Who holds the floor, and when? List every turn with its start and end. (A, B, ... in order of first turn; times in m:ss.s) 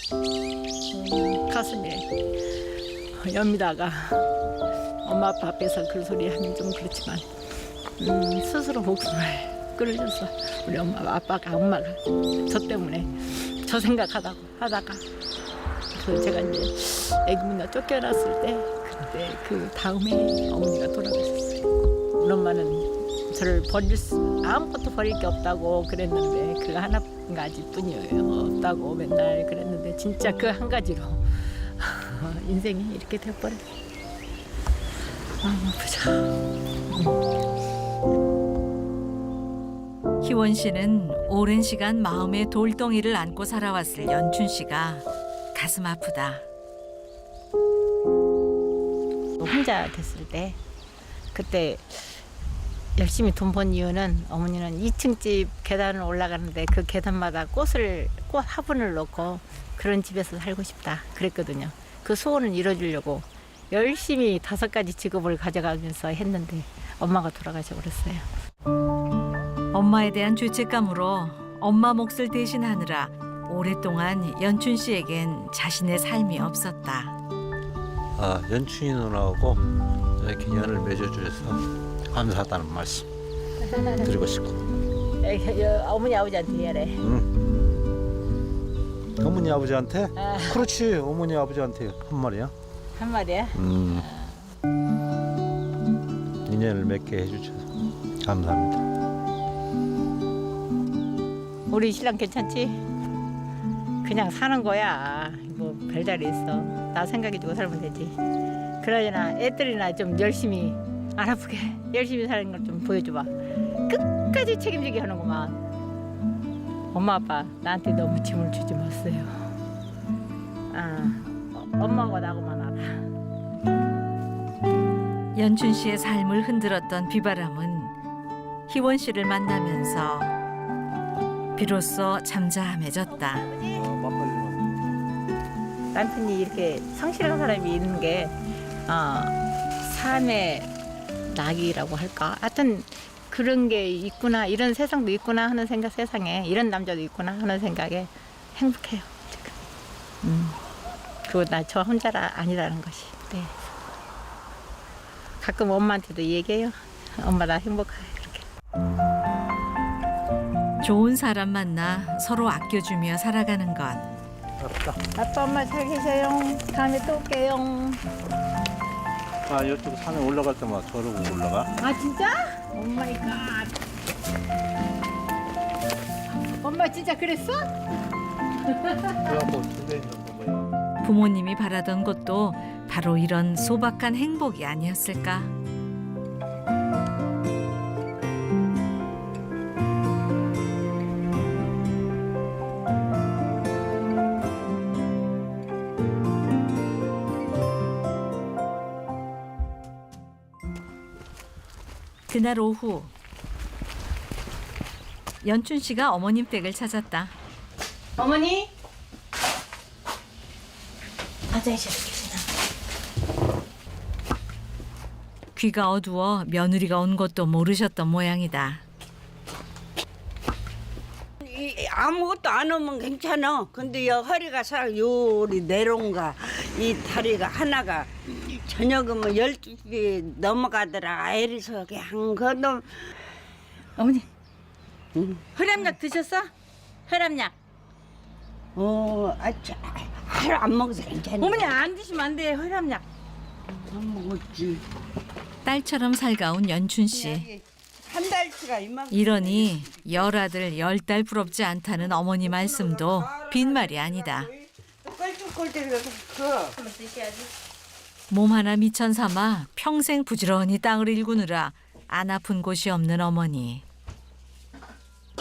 0:00.9-0:02.1 A
0:03.1-0:04.2 A
0:05.0-0:07.3 A
0:08.0-0:15.0 A
0:15.9-0:21.6 A
0:22.2-0:33.6 A
0:35.4-0:36.4 A
0:40.2-0:46.4 B
0:49.4-0:50.6 A
0:51.3-0:52.2 A
0:53.0-1:08.2 A
1:09.7-1:17.1 B
1:18.2-1:19.6 C
1:20.2-1:23.1 C
1:23.7-1:24.1 A
1:24.0-1:24.6 C
1:25.2-1:27.0 A
1:27.0-1:27.3 C
1:29.2-1:32.5 C
1:30.2-1:30.6 A
1:33.0-1:34.5 A
1:33.5-1:34.1 C
1:36.4-1:38.8 C
1:41.7-1:42.8 A
1:44.0-1:48.2 A
1:48.8-1:53.3 A
1:53.9-1:55.6 A
1:56.9-1:59.4 A
2:00.7-2:03.0 A
2:05.3-2:07.9 B
2:08.7-2:10.3 B
2:11.6-2:13.5 B
2:13.3-2:13.8 A
2:13.7-2:14.8 C
2:15.9-2:18.3 A
2:18.8-2:20.7 A
2:21.3-2:29.6 A
2:30.2-2:30.6 A
2:31.2-2:33.5 A
2:35.4-2:38.4 A
2:40.8-2:44.0 B
2:44.6-2:45.0 C
2:45.1-2:48.0 A
2:49.5-2:51.7 C
2:51.8-2:53.7 A
2:56.5-2:57.7 A
2:58.6-2:59.4 A
2:59.3-3:00.7 C
3:01.0-3:05.5 B
3:22.3-3:23.1 B
3:25.4-3:27.3 B
3:28.2-3:28.7 A
3:31.5-3:32.4 A
3:35.5-3:38.8 B
3:41.4-3:53.1 D
3:54.0-3:54.3 A
3:55.1-3:55.4 D
3:55.5-3:56.5 A
3:57.1-3:57.5 A
3:58.7-4:01.7 D
4:01.4-4:03.0 A
4:03.7-4:04.8 D
4:05.6-4:07.5 B
4:07.1-4:10.2 D
4:09.1-4:14.5 B
4:12.5-4:16.7 D
4:16.8-4:17.5 A
4:18.3-4:23.8 B